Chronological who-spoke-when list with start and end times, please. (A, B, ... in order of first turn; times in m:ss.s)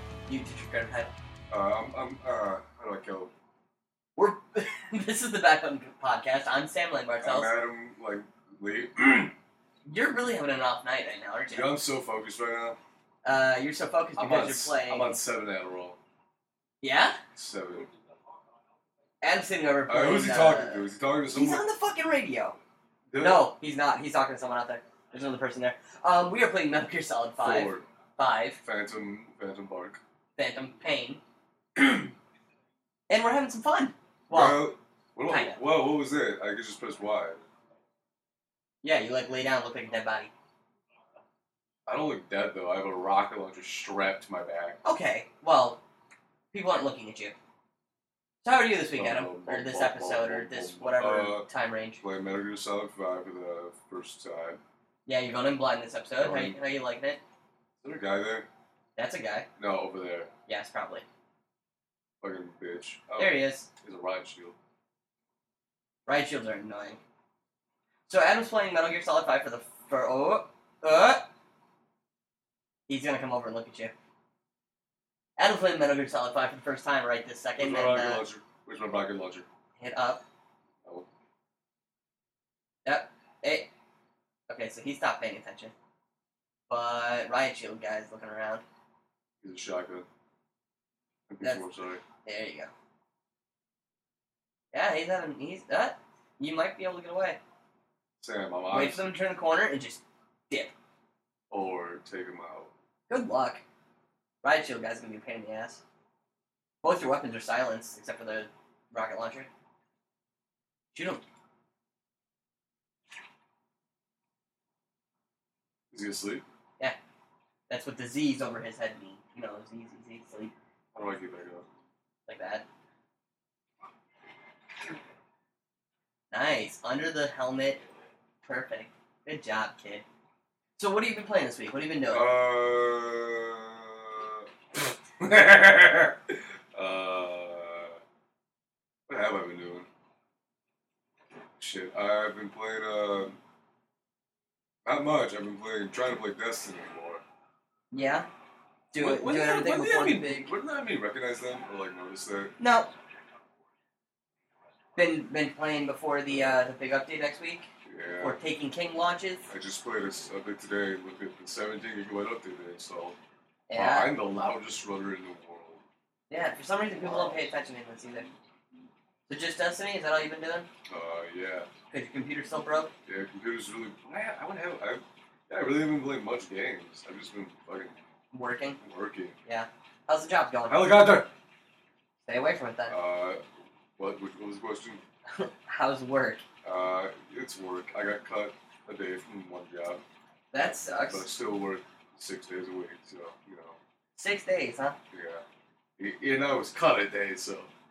0:00.3-0:01.1 A
0:01.5-0:03.3 B
0:04.2-0:07.5 A
0:07.2-0:09.3 B
0:09.8-0:11.7 A
0:11.5-0:12.8 B
0:13.2-0:15.2 A
0:14.2-0:16.0 B
0:16.8-0:17.2 A
0:17.4-0:17.9 B
0:19.2-0:22.6 A
0:19.9-0:21.6 B
0:23.1-0:23.5 B
0:23.2-0:28.6 A
0:27.4-0:27.8 B
0:28.6-0:30.0 B
0:30.4-0:31.2 A
0:33.1-0:34.6 A
0:34.3-0:37.4 B
0:35.3-0:35.6 A
0:38.8-0:40.3 A
0:41.9-0:44.8 B
0:44.8-0:45.8 A
0:46.5-0:47.3 A
0:48.4-0:52.0 A
0:48.9-0:51.5 B
0:52.0-0:54.6 B
0:55.1-0:57.2 A
0:56.2-0:56.6 B
0:57.8-0:58.5 B
0:59.0-0:59.5 A
0:59.6-1:00.3 B
1:00.5-1:01.0 A
1:02.2-1:04.6 B
1:03.2-1:03.7 A
1:06.1-1:07.0 A
1:08.1-1:11.3 A
1:12.9-1:13.9 A
1:15.4-1:18.2 A
1:17.6-1:19.5 B
1:19.8-1:20.2 A
1:22.8-1:23.7 A
1:24.5-1:25.7 A
1:26.7-1:28.6 A
1:29.4-1:30.1 B
1:31.3-1:32.0 B
1:32.2-1:32.7 A
1:34.7-1:37.4 A
1:38.2-1:39.0 B
1:38.7-1:40.7 A
1:41.5-1:42.7 B
1:43.1-1:43.6 A
1:44.4-1:45.8 A
1:46.8-1:49.5 A
1:50.9-1:51.2 A
1:55.9-1:56.4 B
1:57.7-2:00.5 A
2:00.9-2:01.7 B
2:02.3-2:02.6 A
2:06.3-2:07.8 A
2:08.4-2:10.0 A
2:10.8-2:12.4 A
2:12.1-2:18.0 B
2:19.1-2:19.9 B
2:21.6-2:23.4 B
2:24.8-2:27.2 B
2:27.9-2:28.3 A
2:28.9-2:30.5 A
2:29.0-2:32.6 B
2:32.6-2:32.9 A
2:35.0-2:37.7 A
2:37.8-2:38.4 B
2:38.2-2:39.5 A
2:39.5-2:43.2 B
2:43.7-2:44.1 A
2:43.7-2:45.8 B
2:46.3-2:48.3 A
2:47.0-2:47.4 B
2:49.3-2:50.7 A
2:50.9-2:51.7 B
2:51.9-2:52.9 A
2:53.1-2:58.0 B
2:58.3-2:58.8 A
2:58.8-2:59.4 B
2:59.5-3:00.9 A
3:00.7-3:01.3 B
3:02.3-3:03.0 A
3:02.9-3:03.4 B
3:04.0-3:05.0 B
3:05.3-3:06.4 A
3:06.6-3:10.0 B
3:10.5-3:11.3 A
3:11.1-3:13.8 B
3:14.2-3:15.0 A
3:15.1-3:15.4 B
3:16.0-3:17.7 B